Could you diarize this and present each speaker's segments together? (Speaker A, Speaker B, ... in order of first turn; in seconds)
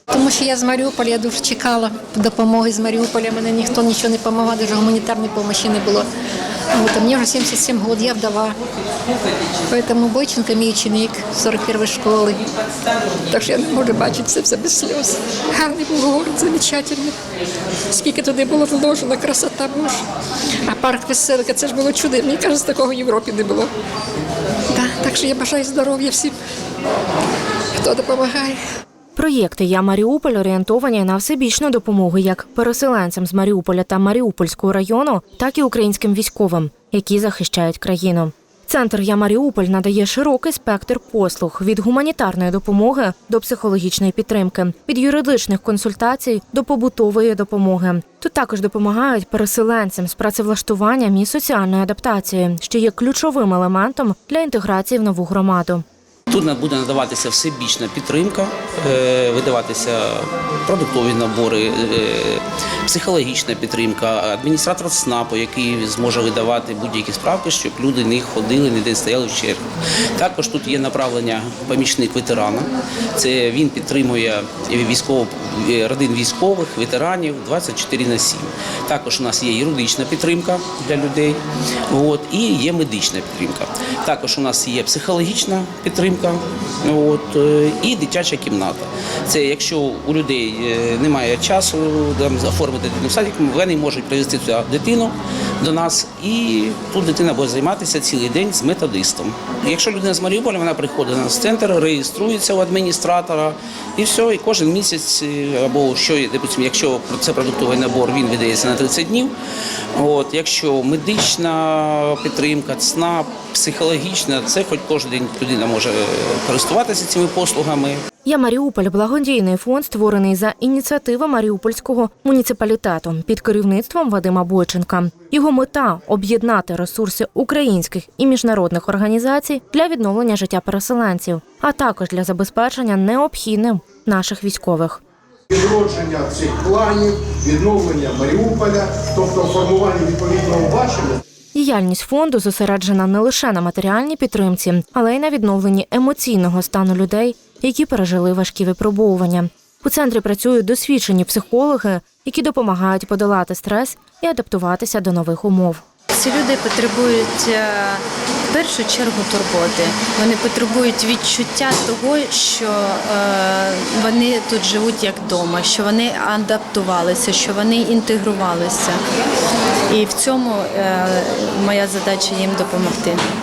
Speaker A: 0.1-6.1, 6.7-8.6, 9.7-12.4, 13.3-17.1, 17.9-20.0, 20.7-23.7, 24.7-26.4, 27.8-28.6
Speaker B: 29.2-55.8, 118.2-135.0, 141.5-155.8
Speaker C: 56.3-69.6, 70.2-109.3, 110.0-118.0
Speaker D: 135.5-141.2
Speaker E: 156.1-169.0, 169.9-173.2